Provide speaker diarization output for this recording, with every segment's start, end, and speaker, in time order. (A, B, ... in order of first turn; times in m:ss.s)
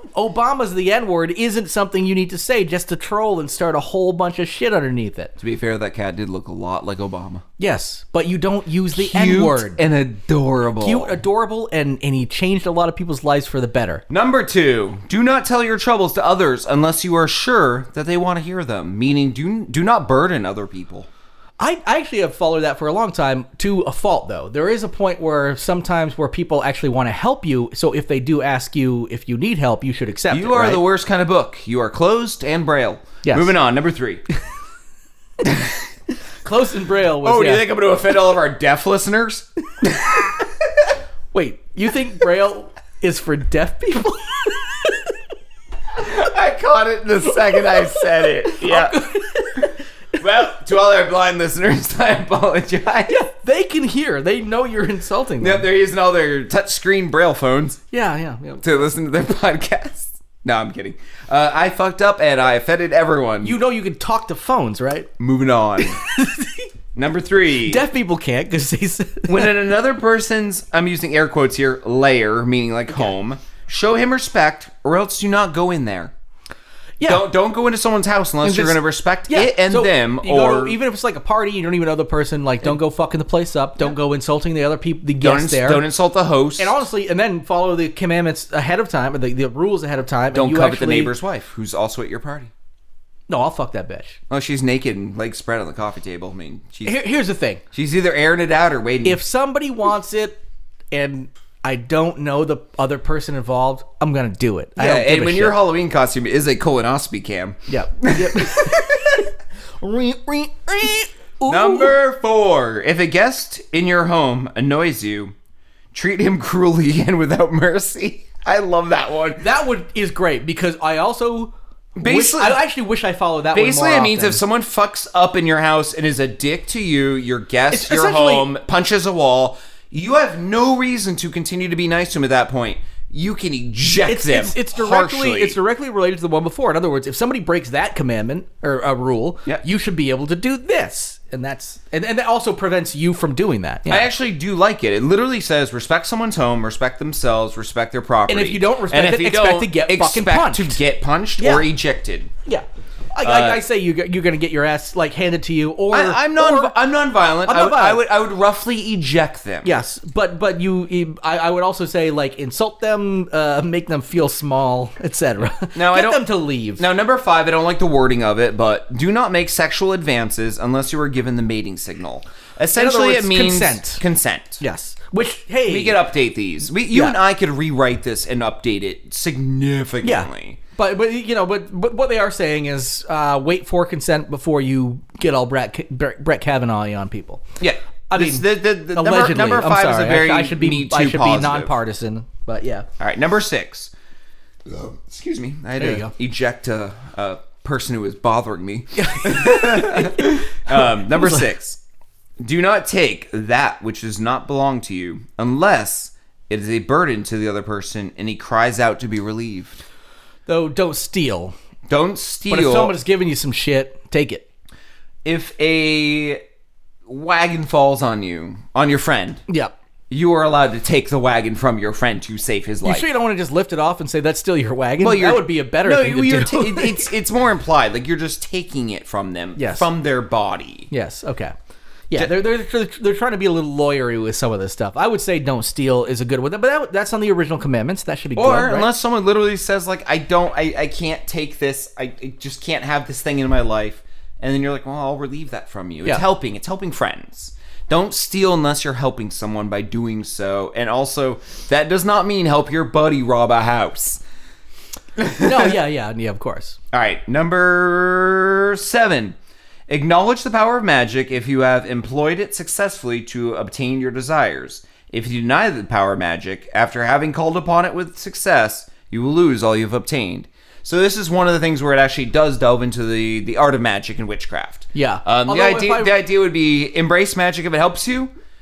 0:00.1-0:05.3 A
0:05.4-0:07.4 B
0:07.6-0:09.8 A
0:08.9-0:11.2 B
0:10.8-0:14.0 A
0:14.1-0:21.1 B
0:21.6-0:30.8 A
0:30.3-0:34.2 B
0:33.2-0:33.5 A
0:35.4-0:35.8 B
0:36.4-0:37.6 A
0:37.2-0:40.4 B
0:41.3-0:45.0 A
0:45.9-0:49.0 B
0:48.2-0:49.8 A
0:49.6-0:53.2 B
0:53.1-0:55.6 A
0:55.4-0:57.8 B
0:57.9-0:58.8 A
0:58.6-1:03.6 B
1:03.4-1:05.1 A
1:05.2-1:06.0 B
1:05.8-1:06.7 A
1:06.9-1:07.8 B
1:07.6-1:09.5 A
1:09.3-1:16.1 B
1:17.0-1:17.3 A
1:17.0-1:20.8 B
1:18.4-1:25.8 A
1:25.2-1:26.8 B
1:26.6-1:31.1 A
1:30.3-1:32.5 B
1:33.3-1:34.2 A
1:34.3-1:37.0 B
1:36.8-1:37.6 A
1:37.7-1:39.2 B
1:39.0-1:40.4 A
1:40.9-1:45.6 A
1:44.8-1:49.2 B
1:47.7-1:51.9 A
1:51.5-1:55.3 B
1:55.9-1:59.4 B
1:59.4-2:04.4 A
2:02.0-2:02.6 B
2:03.5-2:15.6 B
2:07.7-2:08.5 A
2:14.0-2:24.1 A
2:23.9-2:32.3 B
2:28.3-2:30.8 A
2:31.4-2:31.7 A
2:32.4-2:36.7 A
2:33.2-2:33.6 B
2:35.9-2:39.7 B
2:37.4-2:38.0 A
2:39.6-2:46.8 A
2:45.7-2:46.2 B
2:46.8-2:54.6 B
2:52.7-2:54.0 A
2:54.6-2:56.0 A
2:55.7-3:00.6 B
3:00.0-3:07.4 A
3:07.6-3:11.7 B
3:08.1-3:12.8 A
3:13.0-3:13.9 B
3:14.7-3:21.8 B
3:15.8-3:16.1 A
3:19.0-3:21.5 A
3:22.4-3:29.8 B
3:30.5-3:31.5 A
3:31.9-3:32.9 B
3:32.5-3:34.4 A
3:35.2-3:36.4 B
3:37.1-3:39.4 B
3:39.5-3:39.7 A
3:40.1-3:43.1 B
3:42.8-3:47.1 A
3:45.0-3:50.9 B
3:49.6-3:49.9 A
3:50.9-3:51.5 A
3:52.1-3:58.9 A
3:58.4-4:14.2 B
4:15.2-4:15.7 B
4:15.3-4:16.8 A
4:16.9-4:19.4 B
4:19.9-4:38.3 B
4:34.9-4:36.1 A